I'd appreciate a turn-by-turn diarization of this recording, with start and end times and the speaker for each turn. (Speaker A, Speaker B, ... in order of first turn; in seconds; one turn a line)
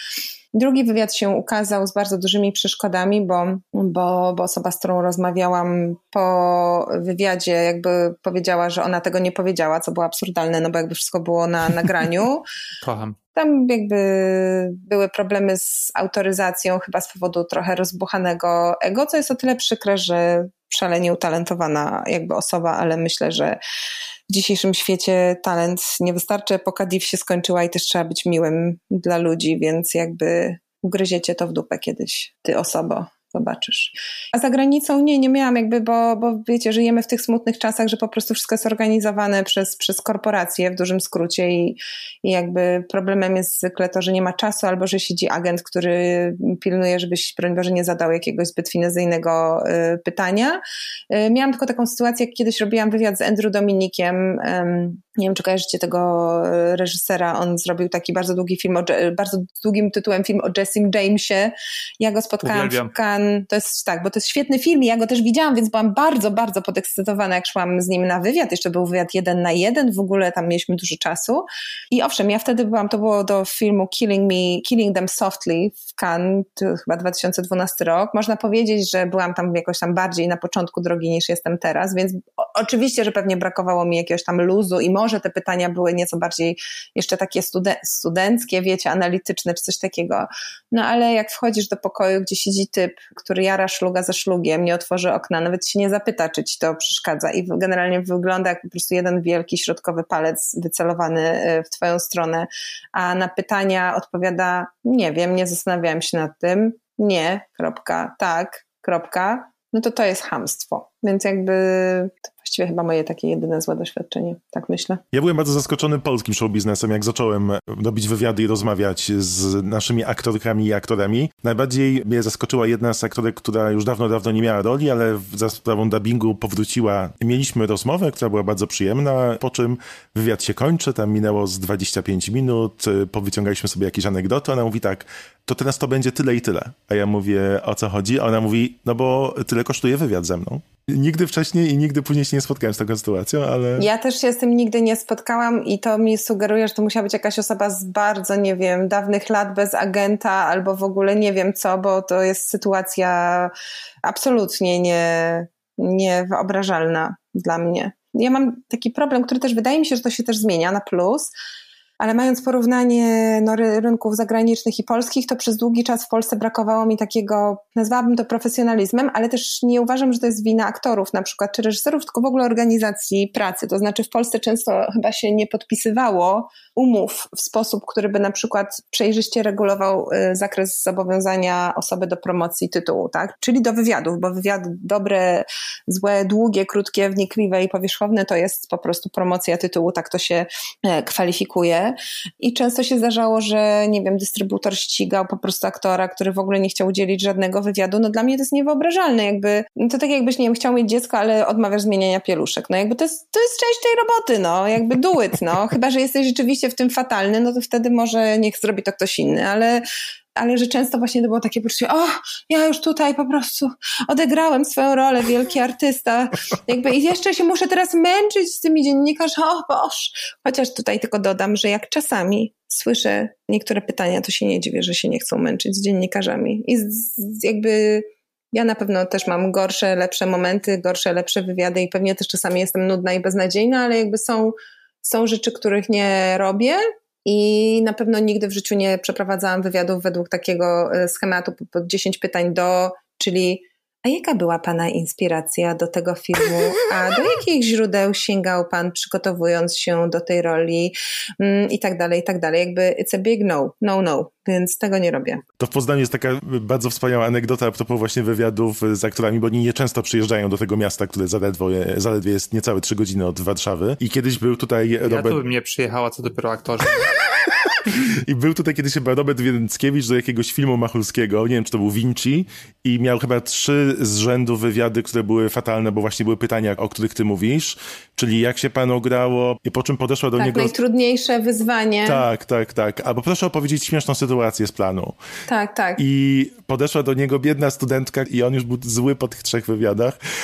Speaker A: 0.5-12.4
Speaker B: 12.8-13.2
Speaker A: 13.3-23.6
Speaker A: 24.3-115.0
Speaker B: 62.4-62.9
Speaker C: 115.1-143.9
Speaker A: 143.8-153.5
Speaker A: 154.0-161.3
Speaker A: 162.0-209.8
Speaker A: 210.3-255.4
Speaker C: 255.6-265.4
Speaker B: 265.1-267.1
Speaker C: 268.2-280.7
Speaker A: 280.4-282.2
Speaker C: 282.1-285.2
Speaker A: 285.5-286.0
Speaker C: 286.0-290.2